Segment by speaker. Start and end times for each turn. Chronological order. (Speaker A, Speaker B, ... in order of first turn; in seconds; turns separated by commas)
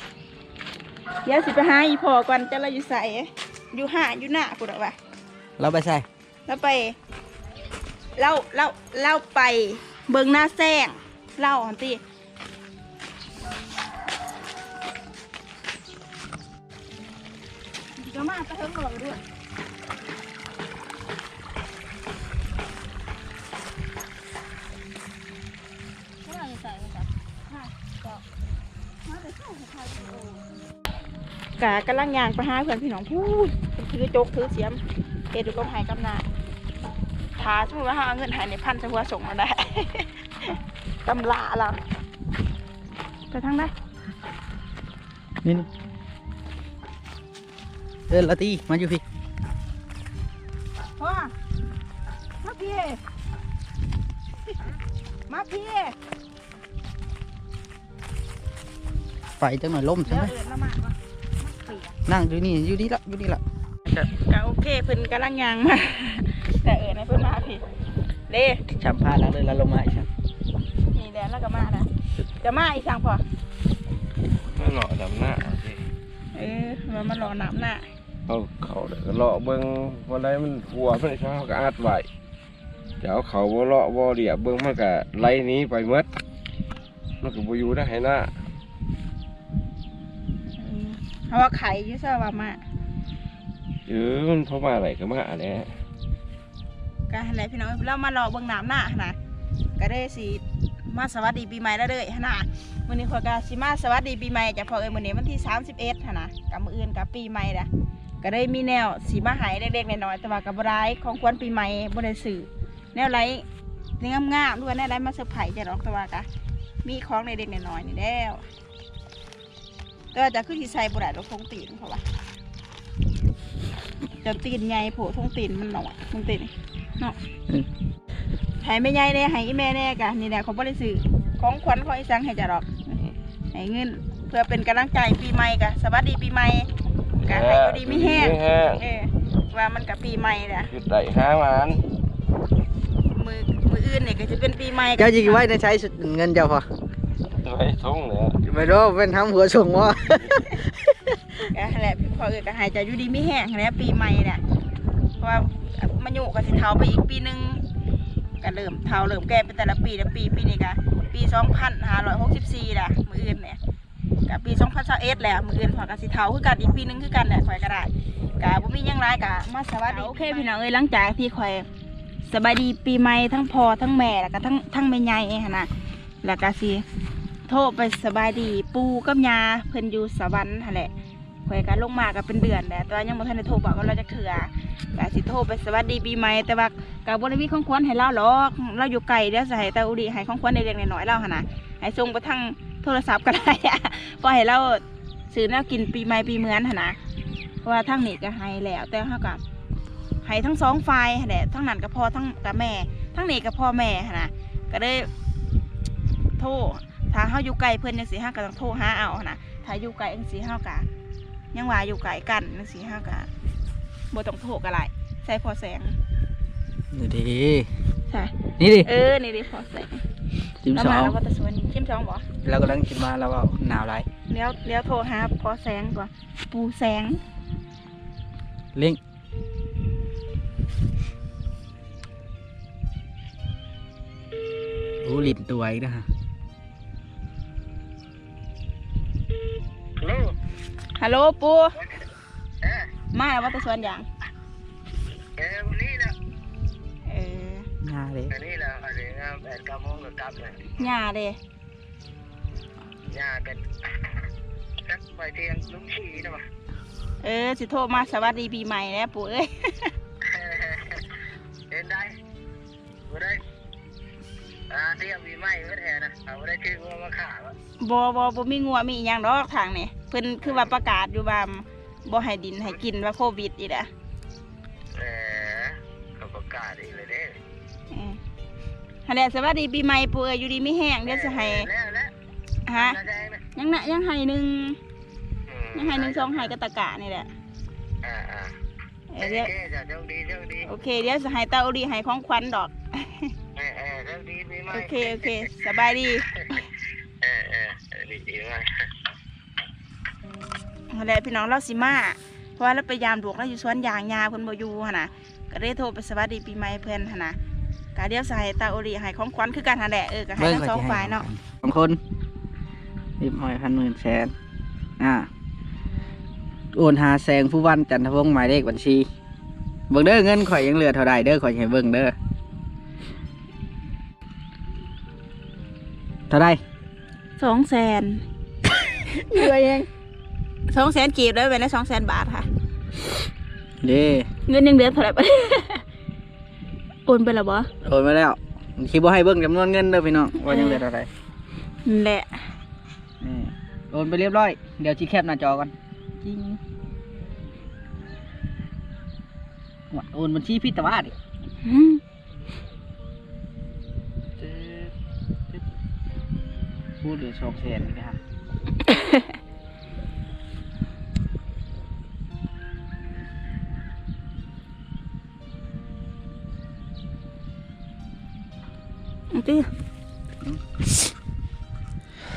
Speaker A: 1.2-5.0, Speaker B: 5.6-6.0, Speaker A: 6.5-7.0, Speaker A: 8.2-12.0, Speaker A: 18.0-19.2, Speaker A: 26.2-28.2, Speaker A: 29.0-30.4, Speaker A: 31.6-34.8, Speaker A: 35.3-36.2, Speaker A: 37.4-41.8, Speaker A: 43.3-43.7, Speaker B: 48.1-49.0, Speaker A: 51.0-51.3, Speaker A: 52.4-53.0, Speaker A: 55.3-56.0, Speaker B: 59.4-60.3, Speaker A: 60.0-62.0, Speaker B: 62.1-63.4, Speaker A: 63.9-67.6, Speaker A: 68.3-68.6, Speaker B: 68.7-70.1, Speaker A: 70.9-73.2, Speaker C: 74.5-75.8, Speaker A: 76.3-77.8, Speaker C: 78.3-82.1, Speaker C: 83.0-86.1, Speaker C: 87.2-88.3, Speaker A: 90.6-92.6, Speaker C: 93.9-95.7, Speaker A: 97.1-99.2, Speaker A: 99.8-107.7, Speaker A: 108.2-113.4, Speaker A: 114.0-116.3, Speaker A: 116.8-118.4, Speaker A: 120.1-122.0, Speaker A: 124.2-127.2, Speaker A: 128.6-132.9, Speaker A: 133.5-136.7, Speaker C: 137.2-138.8, Speaker A: 137.2-140.7, Speaker C: 140.7-141.8, Speaker A: 143.1-145.5, Speaker B: 145.0-146.6, Speaker C: 147.4-148.4, Speaker B: 148.4-150.9, Speaker A: 151.5-154.4, Speaker A: 155.2-157.6, Speaker A: 158.4-163.6, Speaker A: 164.3-171.7, Speaker A: 172.2-175.7, Speaker A: 176.2-176.8, Speaker A: 177.5-180.9, Speaker A: 181.4-197.0, Speaker A: 197.6-199.4, Speaker A: 200.2-205.1, Speaker A: 206.4-210.8, Speaker A: 211.5-213.3, Speaker A: 214.1-215.9, Speaker B: 216.9-217.7, Speaker A: 218.1-220.0, Speaker B: 218.6-218.9, Speaker B: 220.6-221.1, Speaker A: 220.7-222.2, Speaker B: 222.4-224.1, Speaker A: 224.3-227.2, Speaker B: 235.0-236.0, Speaker A: 241.0-241.7, Speaker A: 243.1-244.1, Speaker D: 245.4-246.1, Speaker A: 247.1-247.7, Speaker B: 247.8-248.3, Speaker D: 248.4-250.5, Speaker A: 250.8-251.4, Speaker D: 253.3-253.6, Speaker D: 254.9-256.4, Speaker A: 257.2-259.9, Speaker D: 260.6-261.0, Speaker D: 265.6-267.5, Speaker A: 267.8-273.9, Speaker D: 275.0-275.7, Speaker D: 276.3-277.1, Speaker A: 277.9-278.2, Speaker A: 279.1-281.7, Speaker D: 281.1-282.1, Speaker A: 282.7-283.0, Speaker D: 282.8-283.4, Speaker A: 283.5-284.8, Speaker A: 285.7-287.3, Speaker D: 285.8-286.2, Speaker D: 288.2-288.4, Speaker A: 289.1-289.5, Speaker D: 289.2-290.6, Speaker A: 290.6-293.3, Speaker D: 293.6-294.6, Speaker A: 294.7-296.6, Speaker D: 297.6-298.6, Speaker A: 300.9-307.4, Speaker A: 307.9-311.2, Speaker B: 310.4-312.0, Speaker B: 313.2-314.3, Speaker B: 315.0-315.3, Speaker B: 316.7-319.1, Speaker B: 319.9-322.1, Speaker B: 326.3-326.6, Speaker A: 327.4-328.2, Speaker A: 329.1-329.9, Speaker A: 330.7-332.4, Speaker B: 333.8-334.3, Speaker A: 334.5-335.8, Speaker A: 337.1-337.7, Speaker B: 337.8-341.1, Speaker A: 340.5-340.8, Speaker A: 341.9-342.4, Speaker B: 343.2-345.7, Speaker B: 346.2-346.6, Speaker B: 349.9-351.1, Speaker A: 351.6-352.0, Speaker B: 354.4-354.9, Speaker B: 357.0-358.2, Speaker A: 358.8-359.2, Speaker A: 369.3-369.7